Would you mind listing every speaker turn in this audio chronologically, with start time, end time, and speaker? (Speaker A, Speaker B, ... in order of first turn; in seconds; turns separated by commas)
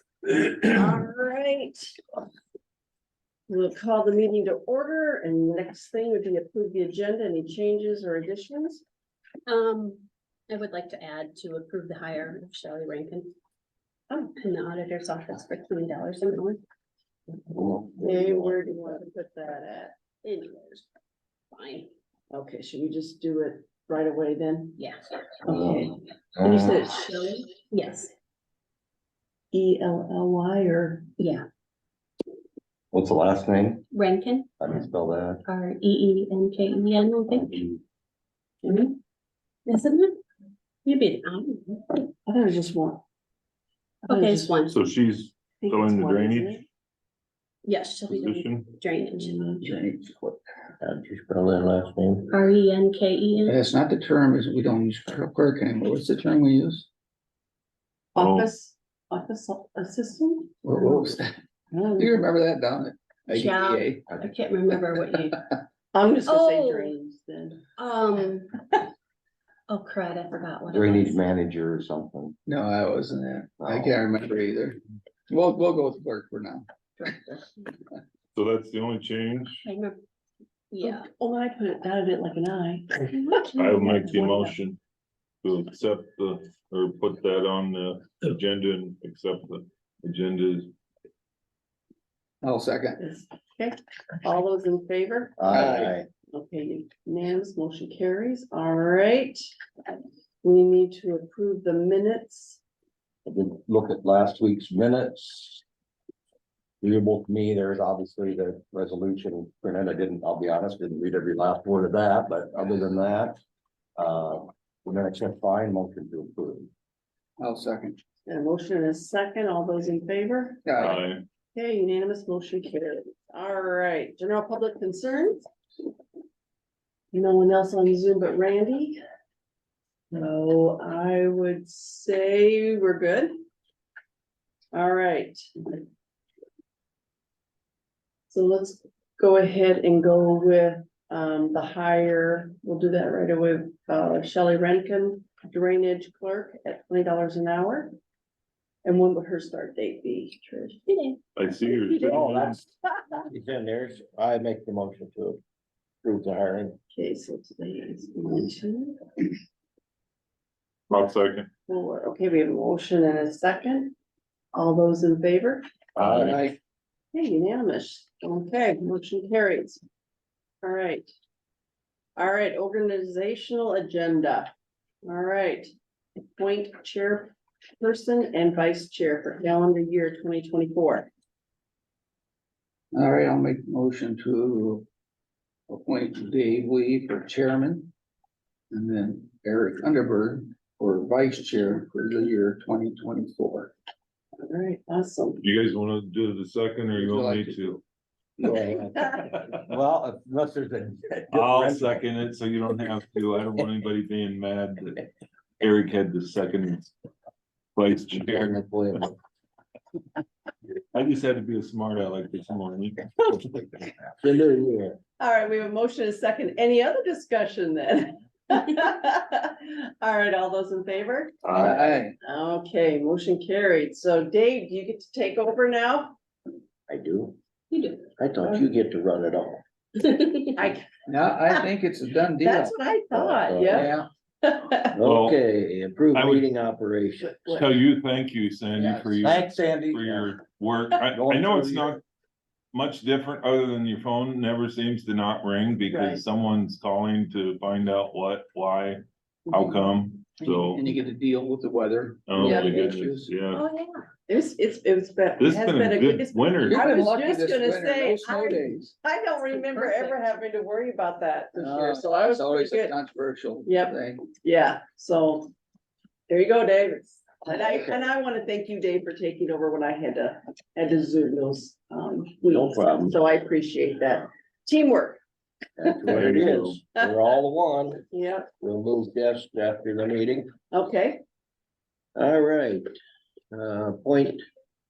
Speaker A: 0.6-1.9, Speaker A: 3.5-8.8, Speaker B: 9.4-13.3, Speaker A: 14.1-14.3, Speaker B: 14.3-16.6, Speaker C: 17.5-18.6, Speaker A: 18.0-19.9, Speaker B: 20.2-20.8, Speaker B: 21.5-21.9, Speaker A: 22.3-24.8, Speaker A: 25.4-27.5, Speaker C: 25.5-26.8, Speaker B: 27.2-28.1, Speaker A: 29.5-31.1, Speaker B: 31.2-31.4, Speaker C: 32.9-33.9, Speaker B: 33.9-34.5, Speaker C: 34.6-35.4, Speaker B: 35.5-37.7, Speaker C: 37.4-37.6, Speaker B: 38.6-39.0, Speaker B: 39.7-40.1, Speaker B: 40.8-42.0, Speaker A: 42.2-43.0, Speaker A: 44.1-44.5, Speaker B: 44.1-44.8, Speaker D: 44.7-46.6, Speaker A: 45.6-46.6, Speaker B: 47.6-49.5, Speaker D: 48.1-48.7, Speaker A: 49.1-49.7, Speaker E: 49.6-50.4, Speaker C: 50.8-52.3, Speaker B: 52.3-53.6, Speaker E: 53.5-56.9, Speaker A: 58.1-60.9, Speaker D: 58.2-58.5, Speaker E: 60.6-61.3, Speaker A: 61.7-62.1, Speaker E: 62.0-63.9, Speaker B: 63.3-65.5, Speaker A: 65.9-67.7, Speaker B: 66.3-66.9, Speaker B: 67.8-68.5, Speaker B: 69.7-71.2, Speaker C: 70.7-72.4, Speaker E: 72.5-74.8, Speaker C: 73.6-74.0, Speaker E: 75.3-76.7, Speaker B: 77.0-77.6, Speaker D: 78.3-79.6, Speaker B: 79.6-80.0, Speaker B: 80.7-81.1, Speaker A: 80.8-84.5, Speaker B: 83.1-83.5, Speaker D: 83.6-84.8, Speaker D: 85.4-90.7, Speaker E: 92.4-93.0, Speaker A: 93.0-95.4, Speaker C: 95.4-96.1, Speaker E: 95.5-95.9, Speaker A: 96.3-99.5, Speaker A: 100.4-102.6, Speaker C: 103.2-105.6, Speaker C: 106.8-113.4, Speaker C: 114.0-116.7, Speaker E: 117.4-118.0, Speaker A: 118.3-120.9, Speaker D: 120.8-121.2, Speaker A: 121.5-125.5, Speaker A: 127.1-129.0, Speaker A: 130.1-133.3, Speaker A: 134.7-135.8, Speaker A: 138.3-147.9, Speaker A: 148.8-150.8, Speaker B: 150.9-151.2, Speaker D: 151.3-152.6, Speaker A: 151.7-152.2, Speaker C: 152.0-152.6, Speaker A: 152.8-153.2, Speaker C: 153.3-155.4, Speaker C: 156.0-156.8, Speaker A: 156.9-159.0, Speaker D: 160.9-161.5, Speaker A: 161.7-163.9, Speaker A: 164.5-166.4, Speaker C: 165.9-166.4, Speaker E: 166.1-166.5, Speaker A: 167.1-169.8, Speaker A: 170.6-171.1, Speaker A: 172.2-174.5, Speaker A: 175.0-175.7, Speaker A: 176.4-181.1, Speaker E: 182.9-184.8, Speaker E: 185.7-187.9, Speaker E: 188.7-193.7, Speaker A: 194.4-195.4, Speaker D: 195.4-197.8, Speaker E: 196.9-197.8, Speaker C: 198.4-202.0, Speaker D: 201.3-205.1, Speaker D: 205.6-206.9, Speaker D: 207.8-208.6, Speaker C: 208.0-209.1, Speaker D: 210.9-213.7, Speaker C: 214.2-215.0, Speaker A: 215.2-226.2, Speaker D: 221.4-221.8, Speaker E: 221.6-222.1, Speaker C: 226.9-227.4, Speaker B: 227.7-228.1, Speaker C: 228.2-229.6, Speaker B: 230.0-230.5, Speaker A: 230.5-230.8, Speaker E: 231.1-232.7, Speaker A: 232.4-235.0, Speaker C: 233.1-233.9, Speaker E: 233.7-234.1, Speaker C: 234.9-237.4, Speaker D: 235.0-235.4, Speaker D: 236.1-236.5, Speaker A: 237.2-237.8, Speaker D: 237.4-242.0, Speaker C: 239.2-240.3, Speaker C: 241.1-242.0, Speaker D: 242.7-250.9, Speaker A: 245.9-246.2, Speaker E: 250.4-253.3, Speaker D: 252.3-253.7, Speaker A: 252.4-252.8, Speaker A: 253.5-262.9, Speaker D: 255.4-256.9, Speaker E: 256.7-258.9, Speaker E: 259.5-260.1, Speaker E: 261.6-264.2, Speaker A: 263.6-265.5, Speaker A: 266.3-275.2, Speaker C: 267.6-268.0, Speaker C: 272.5-273.2, Speaker C: 275.8-278.0, Speaker A: 275.8-276.3, Speaker D: 276.1-276.8, Speaker A: 278.1-278.5, Speaker C: 278.6-280.5, Speaker A: 280.7-281.2, Speaker C: 282.1-282.9, Speaker C: 283.5-284.4